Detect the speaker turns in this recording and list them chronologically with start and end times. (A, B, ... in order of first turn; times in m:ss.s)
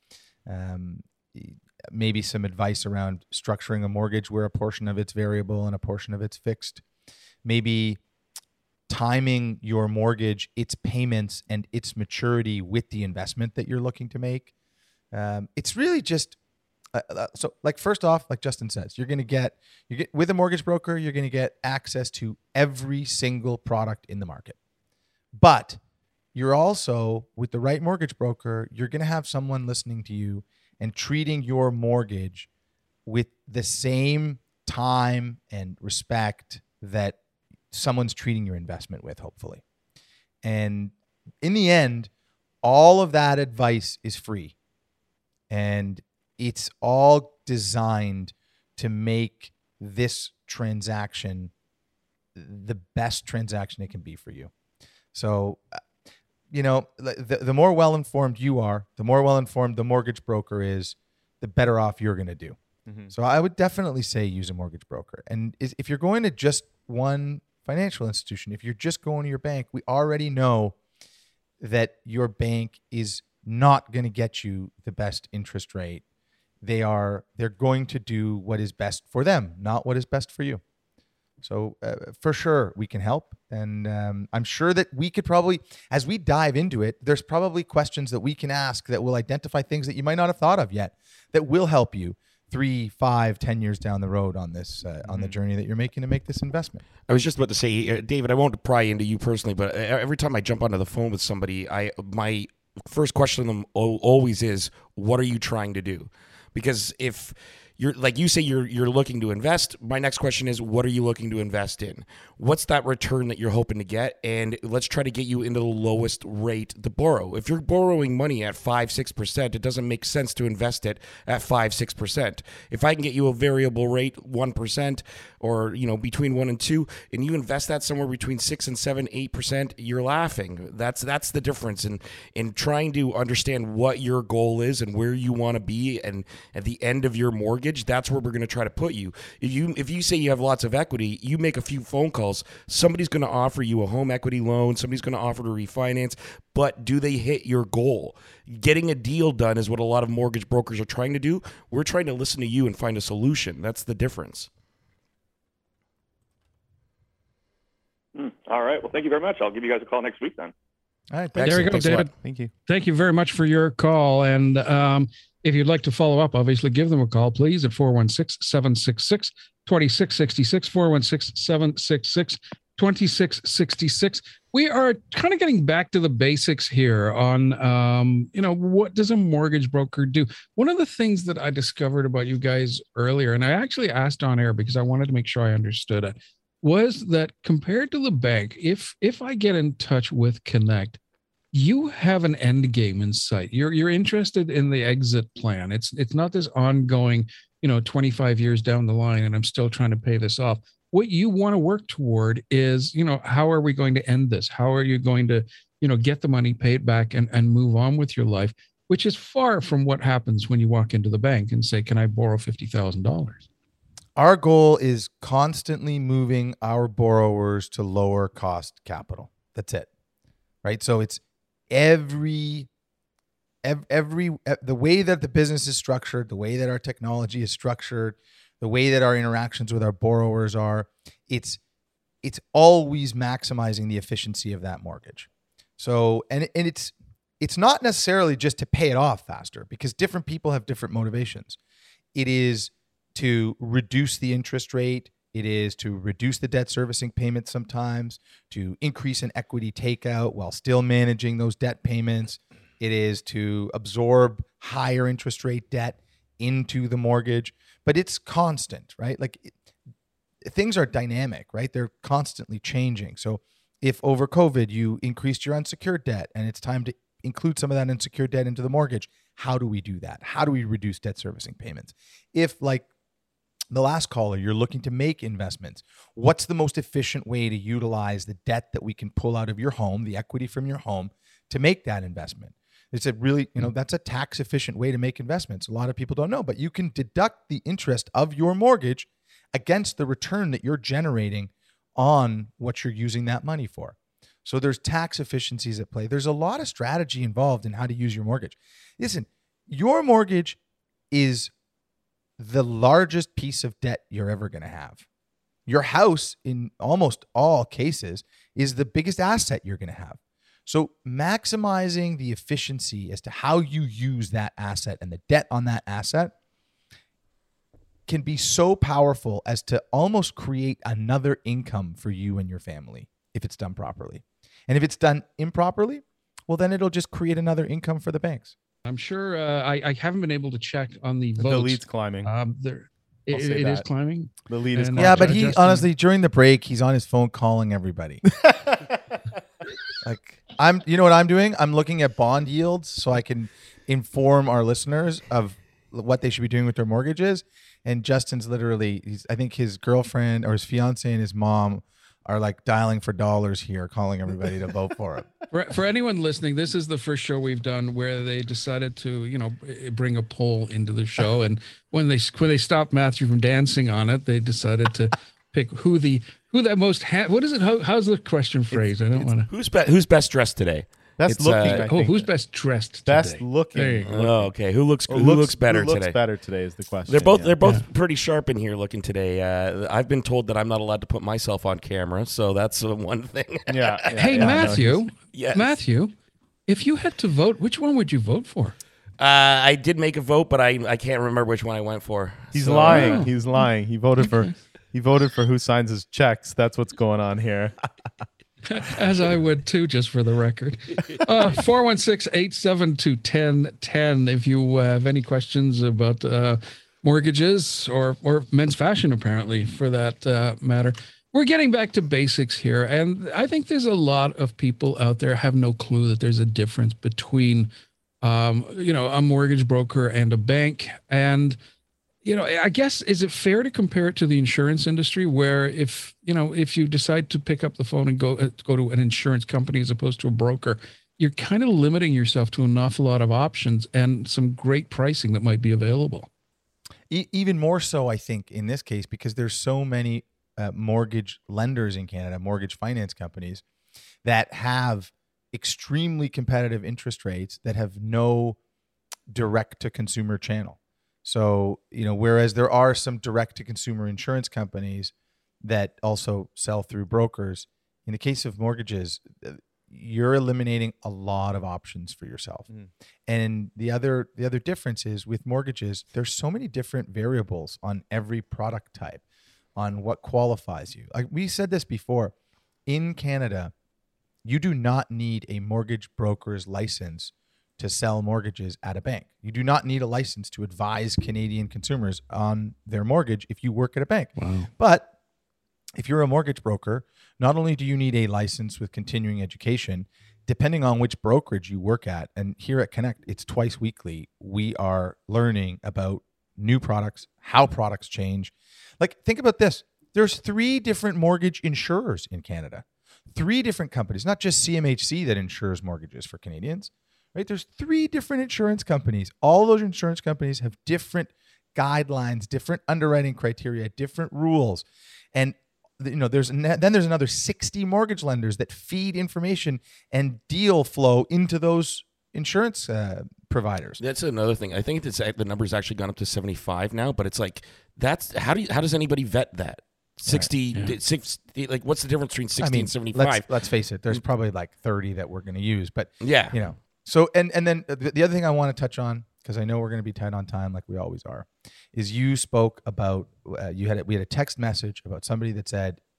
0:00.5-0:06.8 A
0:07.4-0:08.0 A
0:08.9-0:14.5 A
0:15.1-0:16.4 A
0:16.9-0:24.6 A
0:25.3-0:25.8 A
0:26.3-0:32.5 A
0:33.1-0:37.2 A
0:37.7-0:39.6 A
0:40.4-0:42.1 A
0:42.6-0:44.6 A
0:45.5-0:51.5 A
0:52.4-0:54.5 A
0:55.1-0:55.8 A
0:56.5-1:02.6 A
1:02.9-1:03.1 B
1:03.1-1:10.8 A
1:11.6-1:16.0 A
1:16.6-1:20.6 A
1:21.4-1:36.8 A
1:35.0-1:35.4 B
1:37.1-2:34.5 C
2:38.2-2:40.5 D
2:41.1-2:42.0 A
2:41.4-2:42.1 C
2:41.4-2:42.1 E
2:42.2-2:42.5 B
2:42.7-3:11.0 E
3:11.5-3:33.5 E
3:34.2-3:39.9 A
3:40.6-3:42.7 A
3:43.6-3:51.6 A
3:52.2-4:01.6 A
4:02.1-4:19.5 A
4:20.4-4:32.9 A
4:33.7-5:00.6 A
5:01.1-5:01.5 A
5:02.4-5:05.0 A
5:05.7-5:16.3 A
5:18.1-5:28.5 A
5:28.9-5:35.9 E
5:31.4-5:32.3 B
5:33.3-5:33.9 B
5:34.5-5:35.4 B
5:35.0-5:38.2 A
5:38.4-5:38.8 B
5:40.0-5:55.3 A
5:55.5-6:09.5 E
6:09.5-6:12.1 C
6:11.2-6:12.3 B
6:11.7-6:14.1 E
6:13.0-6:14.5 B
6:14.0-6:16.2 C
6:15.1-6:17.6 B
6:17.1-6:25.8 C
6:23.7-6:25.0 B
6:24.2-6:26.1 E
6:26.7-6:28.8 E
6:29.2-6:33.3 C
6:32.5-6:37.8 B
6:32.9-6:33.3 E
6:38.7-6:57.7 E
6:58.2-7:01.6 E
7:02.2-7:16.3 E
7:17.1-7:23.6 A
7:24.2-7:28.6 A
7:29.3-7:42.7 A
7:43.3-7:49.2 A
7:49.8-7:52.3 A
7:52.9-7:53.7 A
7:54.4-8:05.1 A
8:04.4-8:04.7 E
8:06.0-8:44.0 A
8:44.0-8:53.5 C
8:52.6-9:06.0 A
8:56.2-8:56.6 C